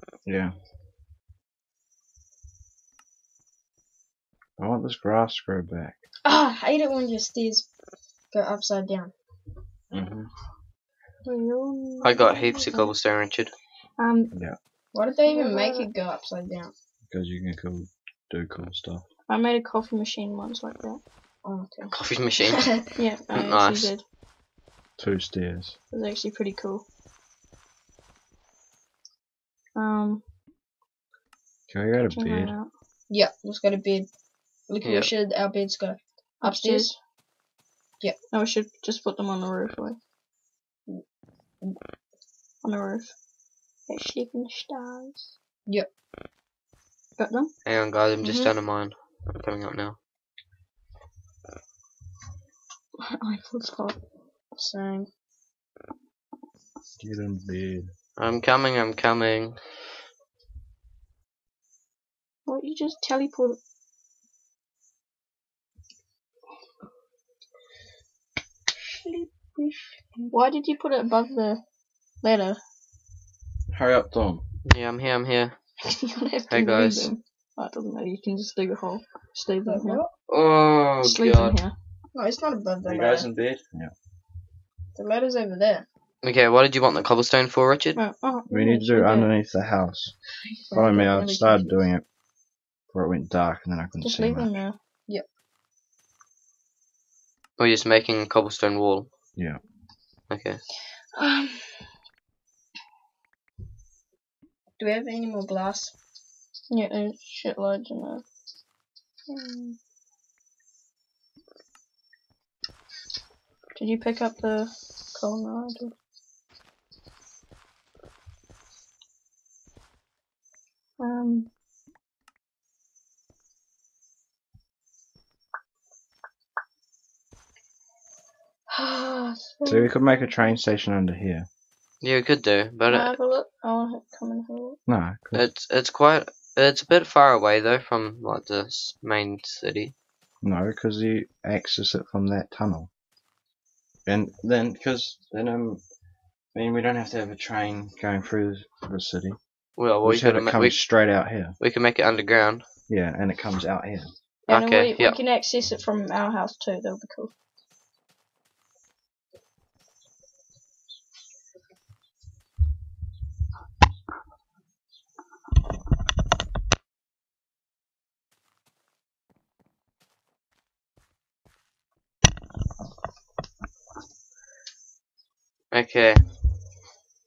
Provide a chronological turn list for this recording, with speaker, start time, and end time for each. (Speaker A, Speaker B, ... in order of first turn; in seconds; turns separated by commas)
Speaker A: 0.2-0.5, Speaker A: 4.6-6.0, Speaker B: 6.2-7.7, Speaker B: 8.3-9.1, Speaker A: 9.9-10.3, Speaker C: 11.2-12.9, Speaker D: 12.0-13.5, Speaker C: 14.0-14.3, Speaker A: 14.3-14.6, Speaker B: 14.9-16.7, Speaker C: 15.2-15.9, Speaker A: 17.1-19.1, Speaker C: 19.3-21.0, Speaker B: 21.4-21.9, Speaker D: 21.9-22.7, Speaker B: 22.6-22.9, Speaker C: 22.9-24.0, Speaker D: 23.3-23.9, Speaker A: 25.0-25.8, Speaker C: 25.9-26.8, Speaker C: 29.8-30.2, Speaker A: 31.7-32.5, Speaker C: 32.1-32.7, Speaker B: 33.1-34.1, Speaker B: 34.7-36.9, Speaker D: 34.8-35.1, Speaker C: 36.4-37.0, Speaker C: 38.3-40.0, Speaker C: 42.6-43.1, Speaker C: 43.9-45.4, Speaker C: 47.2-47.5, Speaker D: 47.7-50.0, Speaker B: 48.2-48.5, Speaker C: 53.0-54.0, Speaker B: 54.6-55.1, Speaker A: 57.0-57.9, Speaker D: 58.2-59.6, Speaker C: 62.5-63.6, Speaker B: 68.8-70.2, Speaker C: 70.3-71.6, Speaker C: 72.2-72.6, Speaker A: 73.7-74.4, Speaker D: 74.6-75.6, Speaker C: 75.8-80.0, Speaker D: 76.5-77.1, Speaker B: 79.7-80.1, Speaker D: 80.3-81.6, Speaker C: 81.0-81.7, Speaker B: 82.1-83.3, Speaker A: 82.8-83.9, Speaker B: 85.0-85.9, Speaker D: 86.2-88.0, Speaker C: 88.0-89.3, Speaker A: 88.5-90.1, Speaker B: 90.6-91.8, Speaker A: 90.7-92.0, Speaker A: 92.9-94.5, Speaker C: 94.0-94.8, Speaker D: 97.6-99.1, Speaker D: 100.3-100.6, Speaker C: 101.1-101.8, Speaker B: 104.8-105.9, Speaker C: 106.7-108.2, Speaker C: 109.3-109.8, Speaker C: 113.8-115.9, Speaker C: 121.0-121.5, Speaker C: 128.7-130.6, Speaker A: 129.6-131.5, Speaker D: 132.0-133.1, Speaker C: 132.9-134.8, Speaker A: 134.9-135.4, Speaker D: 135.3-139.9, Speaker A: 140.4-142.9, Speaker A: 144.1-145.8, Speaker A: 146.5-149.4, Speaker D: 149.8-150.8, Speaker A: 150.0-151.6, Speaker D: 151.6-152.6, Speaker A: 152.9-154.1, Speaker D: 154.5-155.2, Speaker C: 154.5-157.3, Speaker D: 175.7-176.2